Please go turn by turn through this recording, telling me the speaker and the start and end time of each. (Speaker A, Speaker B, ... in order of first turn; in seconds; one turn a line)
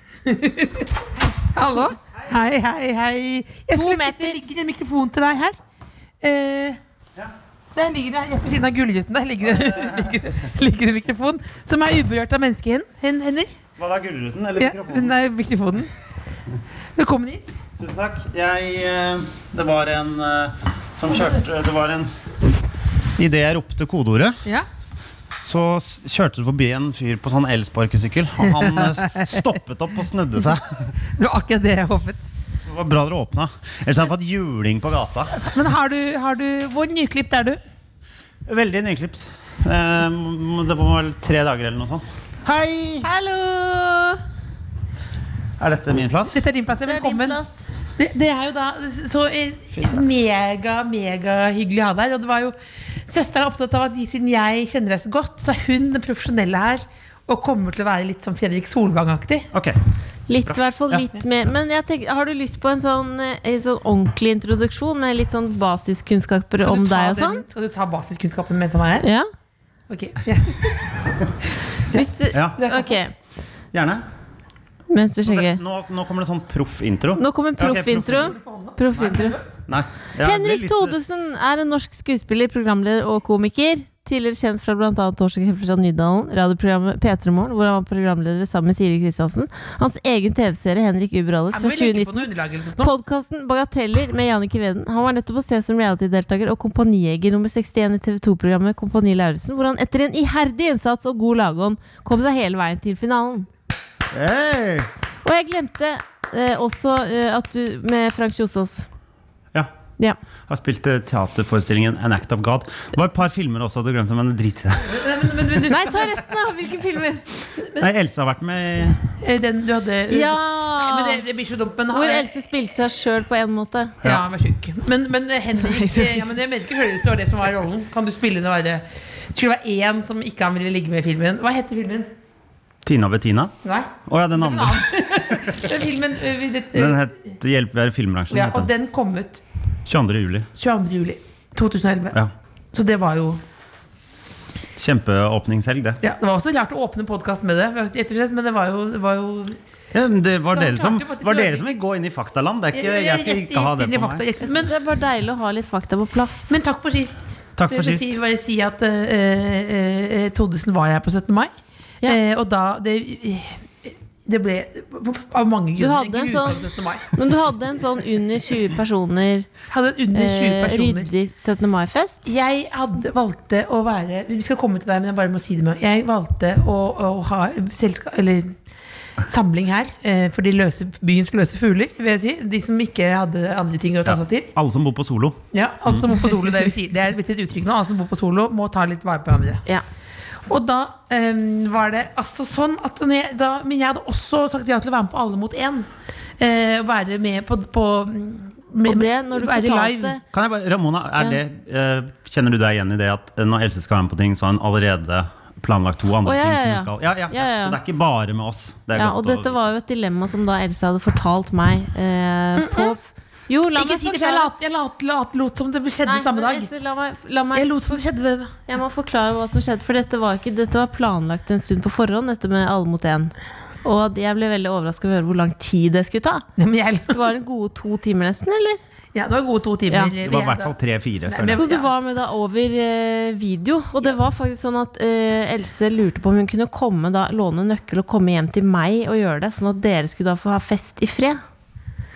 Speaker A: 0.2-5.6
Speaker B: 3.8-4.4
Speaker A: 6.2-6.8
Speaker A: 7.8-13.5
Speaker C: 9.6-10.2
Speaker C: 13.8-15.1
Speaker A: 14.6-15.9
Speaker A: 17.0-17.6
Speaker C: 17.8-22.1
Speaker C: 23.2-24.4
Speaker C: 25.4-30.9
Speaker A: 28.4-29.4
Speaker A: 31.1-32.3
Speaker C: 32.7-35.5
Speaker A: 35.4-37.6
Speaker C: 38.5-43.1
Speaker B: 43.0-44.2
Speaker C: 45.6-46.4
Speaker A: 46.2-47.4
Speaker B: 46.9-47.6
Speaker A: 48.0-59.5
Speaker C: 49.7-50.0
Speaker B: 60.3-67.4
Speaker C: 60.5-61.0
Speaker A: 66.6-69.1
Speaker B: 69.0-69.3
Speaker A: 69.9-71.2
Speaker A: 71.9-73.0
Speaker B: 71.9-73.1
Speaker C: 72.3-72.6
Speaker C: 73.7-74.0
Speaker B: 74.9-75.6
Speaker C: 75.3-78.3
Speaker B: 77.2-79.4
Speaker A: 78.1-79.5
Speaker C: 79.7-81.0
Speaker B: 80.2-92.3
Speaker A: 91.5-92.9
Speaker B: 92.8-103.5
Speaker C: 104.1-104.9
Speaker B: 105.2-108.9
Speaker C: 110.5-115.1
Speaker A: 114.8-116.3
Speaker B: 115.7-117.2
Speaker A: 117.6-117.9
Speaker C: 117.8-119.0
Speaker A: 119.2-122.3
Speaker B: 120.1-121.2
Speaker B: 121.9-124.0
Speaker A: 124.0-132.1
Speaker B: 125.6-126.3
Speaker C: 132.8-133.5
Speaker A: 133.6-137.1
Speaker C: 134.1-135.7
Speaker C: 136.7-138.7
Speaker A: 138.3-139.4
Speaker C: 139.9-140.5
Speaker A: 140.5-142.2
Speaker A: 142.7-143.4
Speaker C: 144.8-146.0
Speaker A: 146.0-149.6
Speaker C: 149.9-154.2
Speaker A: 150.5-151.8
Speaker A: 152.7-154.8
Speaker B: 154.4-156.6
Speaker A: 156.5-161.5
Speaker C: 157.6-158.2
Speaker A: 162.0-167.2
Speaker B: 165.8-169.5
Speaker A: 169.7-171.1
Speaker B: 170.1-172.3
Speaker A: 172.2-178.6
Speaker A: 179.2-184.5
Speaker C: 184.1-186.1
Speaker A: 185.5-189.6
Speaker A: 190.5-200.2
Speaker B: 198.8-200.2
Speaker C: 200.3-209.6
Speaker B: 206.2-207.8
Speaker B: 209.0-214.5
Speaker A: 212.6-213.0
Speaker A: 213.8-216.7
Speaker B: 216.1-218.0
Speaker A: 217.5-218.6
Speaker B: 218.7-226.4
Speaker A: 226.6-227.2
Speaker B: 227.1-228.8
Speaker A: 229.1-231.9
Speaker C: 230.2-231.6
Speaker B: 231.5-241.4